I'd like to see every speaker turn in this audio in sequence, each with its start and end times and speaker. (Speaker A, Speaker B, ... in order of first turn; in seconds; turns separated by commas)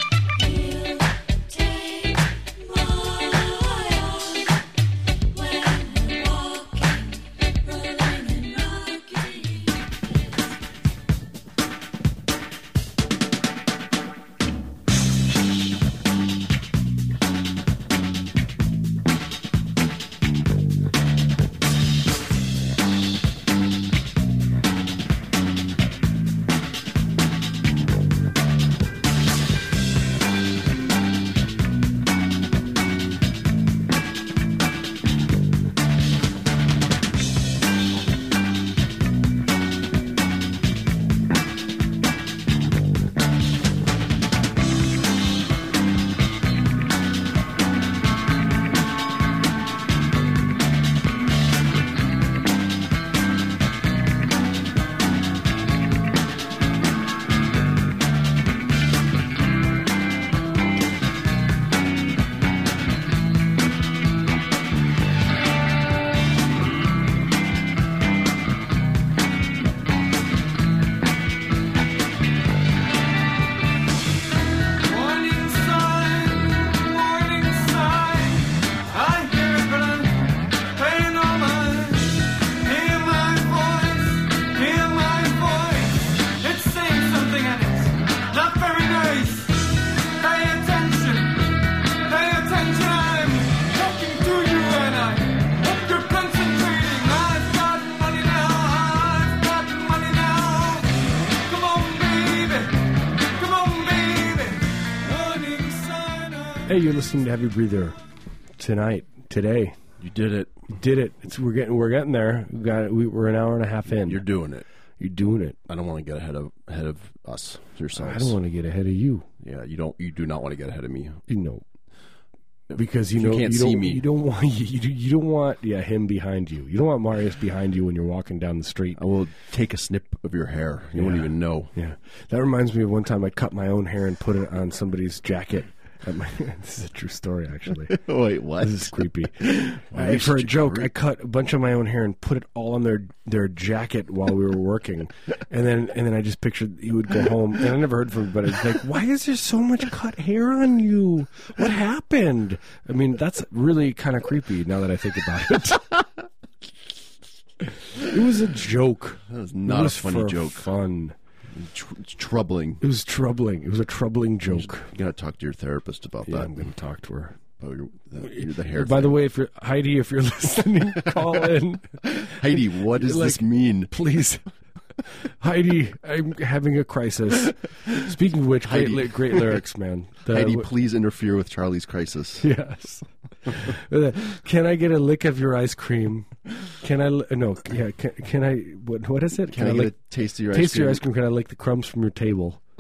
Speaker A: 0.3-4.7, Speaker A: 5.3-10.3, Speaker B: 74.8-106.7, Speaker C: 106.7-108.0, Speaker C: 108.6-109.8, Speaker D: 110.0-110.6, Speaker C: 110.7-114.2, Speaker D: 114.0-114.7, Speaker C: 115.0-115.6, Speaker D: 115.7-118.4, Speaker C: 118.0-119.3, Speaker D: 119.4-121.2, Speaker C: 121.3-121.6, Speaker D: 122.7-124.0, Speaker C: 122.8-129.0, Speaker D: 129.0-131.7, Speaker C: 130.9-138.0, Speaker D: 137.9-140.9, Speaker C: 138.6-156.1, Speaker C: 157.7-161.2, Speaker D: 159.3-160.7, Speaker D: 161.5-162.8, Speaker C: 162.8-164.9, Speaker D: 164.5-166.7, Speaker C: 166.3-167.4, Speaker D: 167.6-169.2, Speaker C: 168.2-174.4, Speaker D: 172.3-173.9, Speaker C: 175.2-180.7, Speaker D: 178.6-179.6, Speaker D: 180.3-182.5, Speaker C: 182.4-189.9, Speaker D: 189.5-191.0, Speaker C: 190.5-192.6